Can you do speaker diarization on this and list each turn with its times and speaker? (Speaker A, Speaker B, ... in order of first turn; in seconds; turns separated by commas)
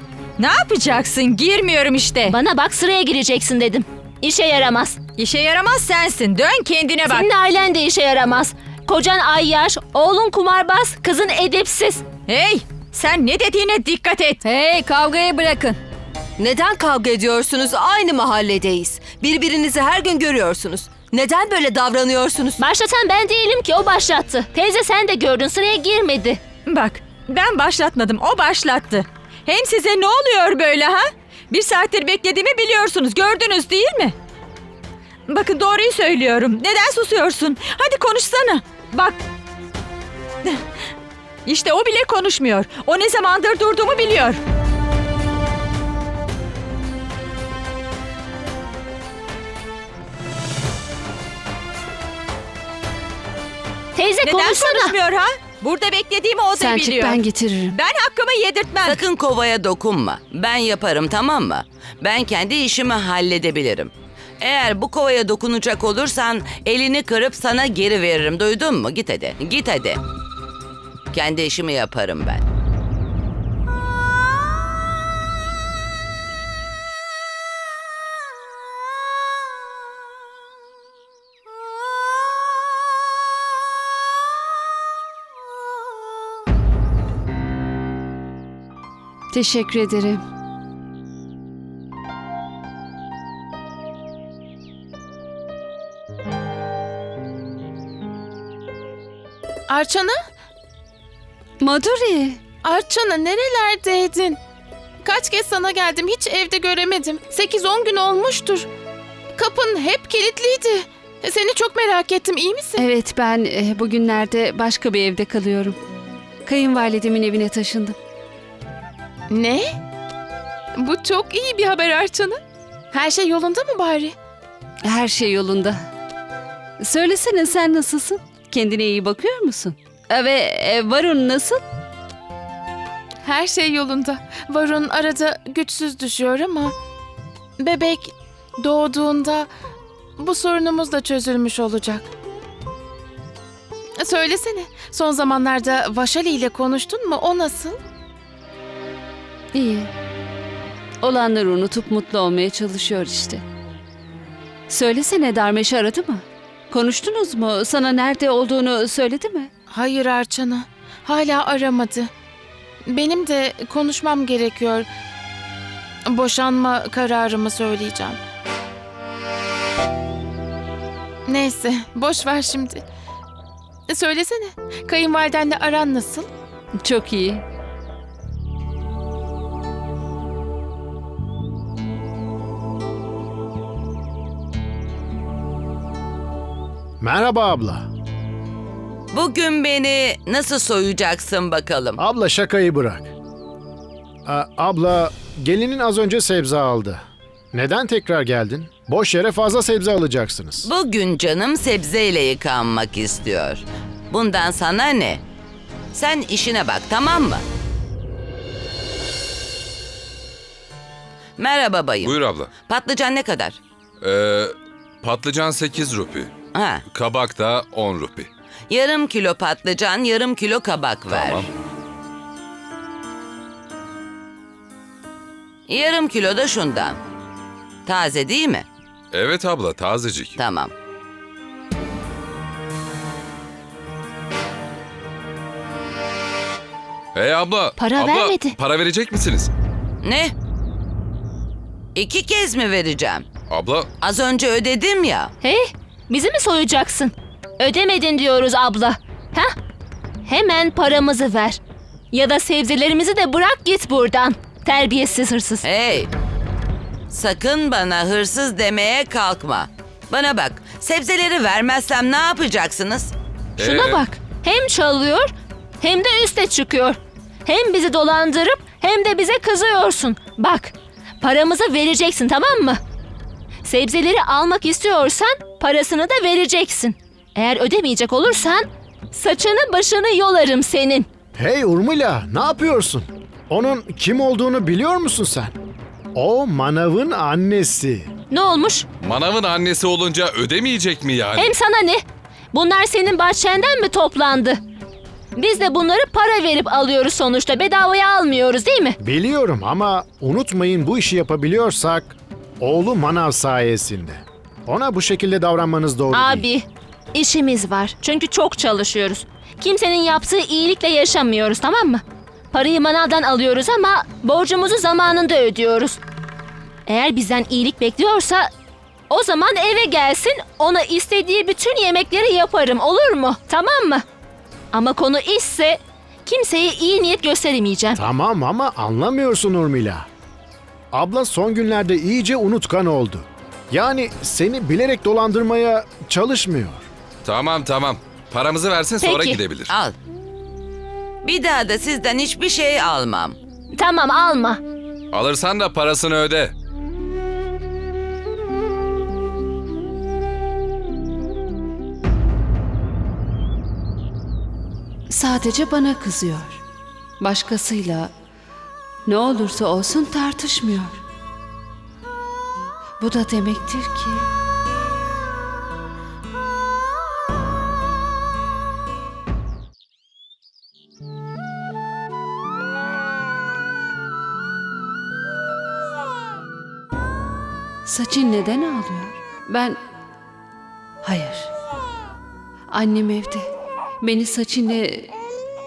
Speaker A: 0.4-2.4, Speaker B: 2.3-5.0, Speaker A: 5.2-7.3, Speaker B: 7.0-12.0, Speaker A: 12.3-14.4, Speaker C: 14.5-15.8, Speaker C: 16.4-22.6, Speaker B: 22.6-26.4, Speaker A: 26.6-34.1, Speaker A: 35.3-39.2, Speaker A: 41.4-44.4, Speaker B: 53.9-54.9, Speaker A: 54.2-59.0, Speaker D: 56.5-57.8, Speaker E: 58.8-70.0, Speaker E: 71.1-72.4, Speaker D: 89.3-90.2, Speaker F: 99.7-100.2, Speaker D: 101.6-102.4, Speaker F: 102.6-104.4, Speaker F: 105.0-108.7, Speaker F: 109.3-112.8, Speaker D: 112.8-115.8, Speaker D: 116.5-118.0, Speaker F: 119.3-119.7, Speaker F: 120.8-122.4, Speaker F: 122.9-124.1, Speaker D: 124.8-125.8, Speaker D: 126.8-131.6, Speaker F: 133.2-136.7, Speaker F: 137.6-139.5, Speaker F: 140.2-142.1, Speaker F: 144.0-147.8, Speaker D: 149.5-149.9, Speaker D: 151.0-153.4, Speaker D: 154.7-159.5, Speaker F: 159.7-162.1, Speaker F: 162.9-164.9, Speaker F: 166.1-168.2, Speaker F: 171.2-172.8, Speaker F: 173.9-176.3, Speaker D: 176.8-177.4, Speaker G: 187.0-187.9, Speaker E: 189.1-192.0, Speaker G: 192.0-193.1, Speaker G: 194.2-200.7, Speaker E: 200.6-205.2, Speaker E: 205.9-207.4, Speaker E: 211.4-213.6, Speaker H: 212.0-212.5, Speaker H: 214.0-216.3, Speaker E: 216.5-216.8, Speaker H: 216.9-218.3, Speaker E: 218.7-221.5, Speaker H: 221.1-221.5, Speaker E: 225.7-227.0, Speaker E: 227.8-228.7, Speaker H: 229.1-230.3, Speaker E: 230.4-230.7, Speaker H: 237.1-239.5, Speaker B: 237.8-238.5, Speaker E: 240.0-240.3, Speaker E: 241.9-243.2, Speaker H: 243.5-243.9, Speaker E: 244.0-245.3, Speaker B: 245.4-249.5, Speaker B: 250.2-251.6, Speaker B: 252.1-255.6, Speaker E: 255.6-256.1, Speaker E: 257.1-263.1, Speaker H: 263.6-264.0, Speaker B: 263.6-272.8, Speaker B: 273.6-281.1, Speaker G: 281.4-285.5, Speaker G: 286.1-288.1, Speaker B: 288.3-288.9, Speaker H: 289.0-291.5, Speaker B: 291.3-294.6, Speaker B: 295.4-299.0, Speaker G: 299.0-306.4, Speaker B: 306.1-316.0, Speaker B: 316.9-318.5, Speaker B: 319.1-324.0, Speaker B: 324.7-328.0, Speaker G: 327.9-330.1, Speaker G: 330.9-336.9, Speaker H: 337.2-339.7, Speaker B: 339.0-339.4, Speaker E: 339.7-339.9, Speaker E: 341.2-343.4, Speaker B: 343.7-344.6, Speaker H: 345.1-346.5, Speaker D: 355.1-356.6, Speaker D: 357.2-358.1, Speaker D: 359.1-361.0, Speaker D: 363.0-364.3, Speaker D: 377.9-379.8, Speaker D: 381.0-381.5, Speaker D: 382.7-383.5, Speaker D: 384.0-385.1